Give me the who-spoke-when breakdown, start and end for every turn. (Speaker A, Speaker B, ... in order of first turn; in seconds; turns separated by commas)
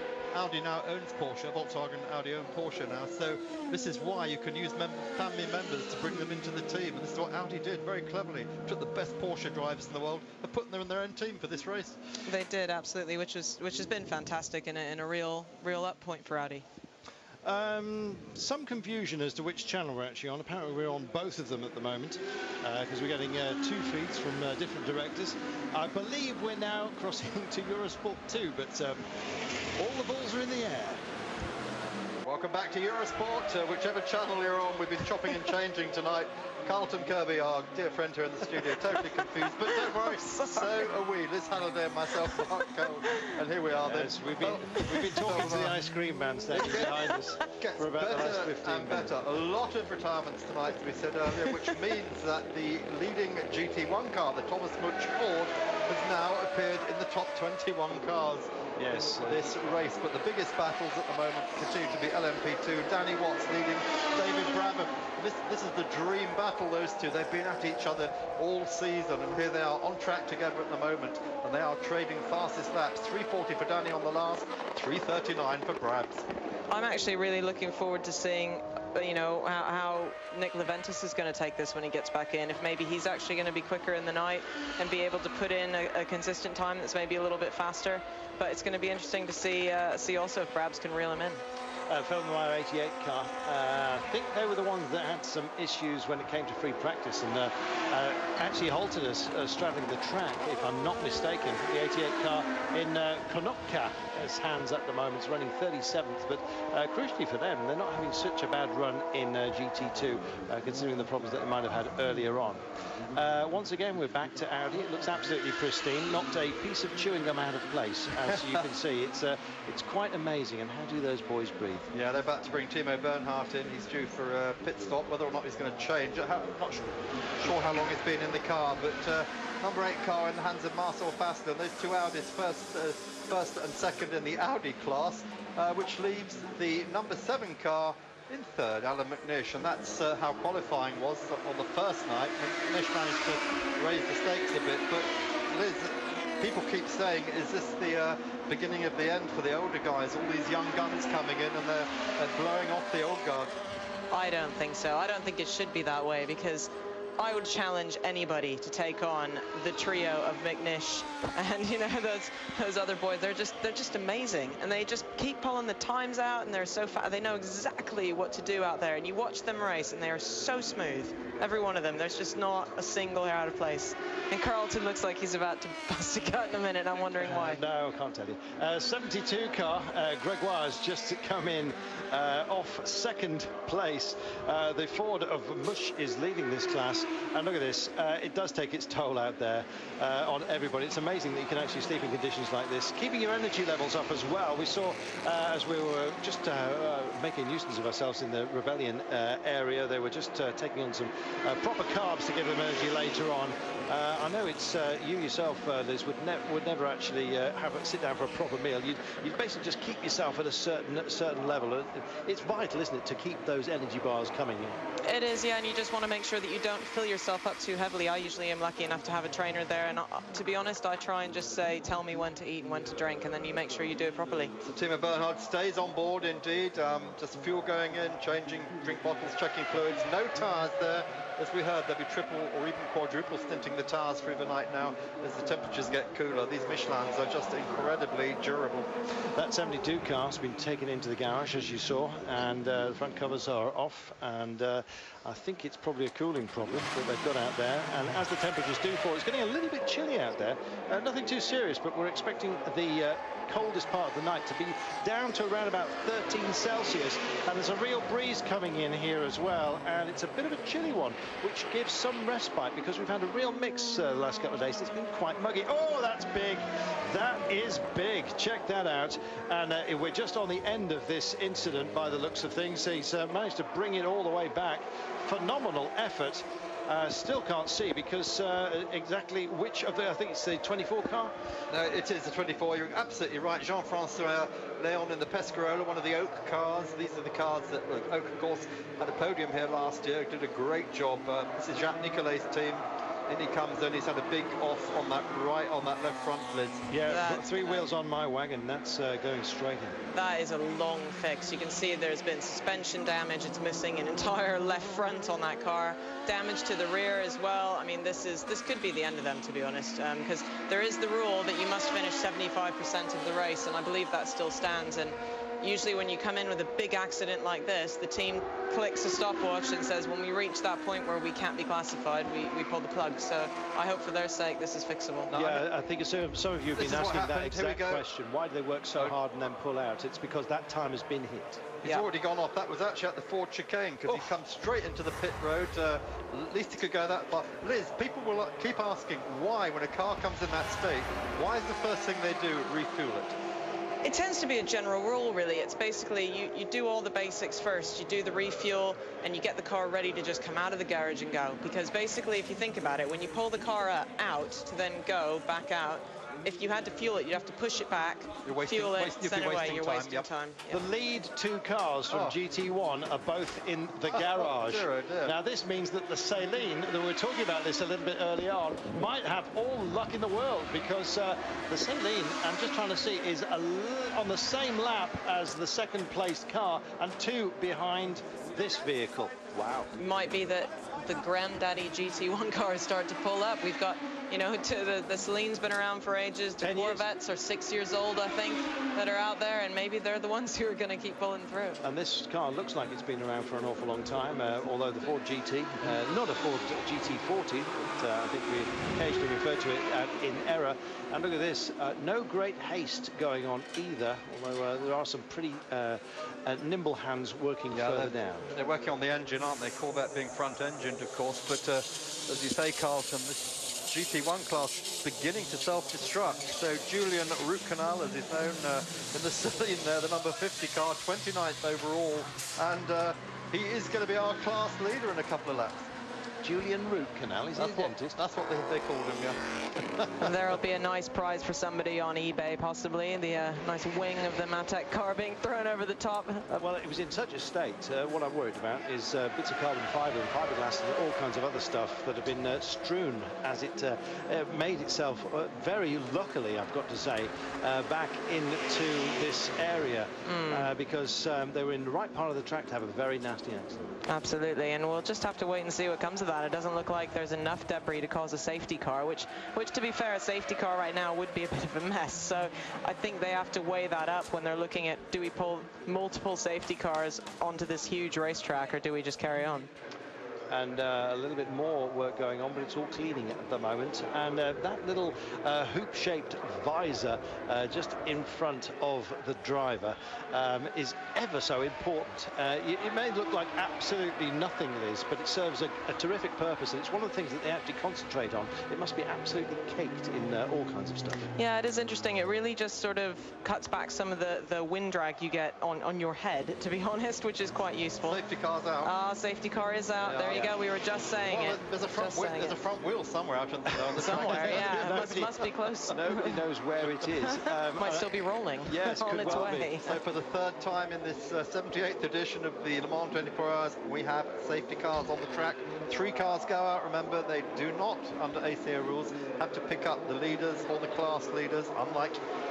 Speaker A: 0.3-12.0, Speaker B: 12.3-16.6, Speaker C: 17.4-29.1, Speaker C: 29.8-31.0, Speaker A: 32.2-45.8, Speaker B: 38.9-40.9, Speaker B: 42.3-43.3, Speaker C: 43.8-49.1, Speaker A: 46.5-58.5, Speaker B: 51.5-51.7, Speaker C: 58.8-59.5, Speaker A: 59.2-76.3, Speaker B: 76.7-91.4, Speaker C: 91.9-121.9, Speaker A: 118.3-118.7, Speaker A: 121.9-153.6, Speaker B: 154.1-177.6, Speaker C: 177.1-214.8, Speaker B: 215.0-224.6, Speaker A: 224.6-238.9, Speaker C: 239.3-281.3, Speaker A: 281.7-296.9, Speaker C: 296.9-300.0, Speaker B: 297.1-297.9, Speaker B: 300.1-325.3, Speaker A: 325.3-325.7, Speaker C: 325.3-331.6, Speaker A: 326.8-328.1, Speaker B: 331.8-332.1, Speaker A: 331.8-343.4, Speaker B: 344.0-360.8, Speaker A: 358.4-360.3, Speaker C: 360.7-379.9, Speaker A: 362.1-362.4, Speaker A: 364.1-365.4, Speaker B: 380.0-391.8, Speaker C: 386.6-387.1, Speaker C: 391.8-408.5, Speaker A: 407.7-425.9, Speaker C: 426.4-428.2, Speaker A: 427.6-429.4, Speaker B: 430.2-436.5, Speaker C: 436.5-453.9, Speaker B: 450.2-450.7, Speaker B: 454.1-469.7, Speaker C: 470.5-491.3, Speaker B: 491.4-498.2, Speaker A: 498.0-498.9, Speaker B: 498.8-502.6, Speaker A: 500.0-505.5, Speaker C: 503.7-509.8, Speaker B: 504.0-506.4, Speaker B: 507.3-510.0, Speaker A: 509.2-522.2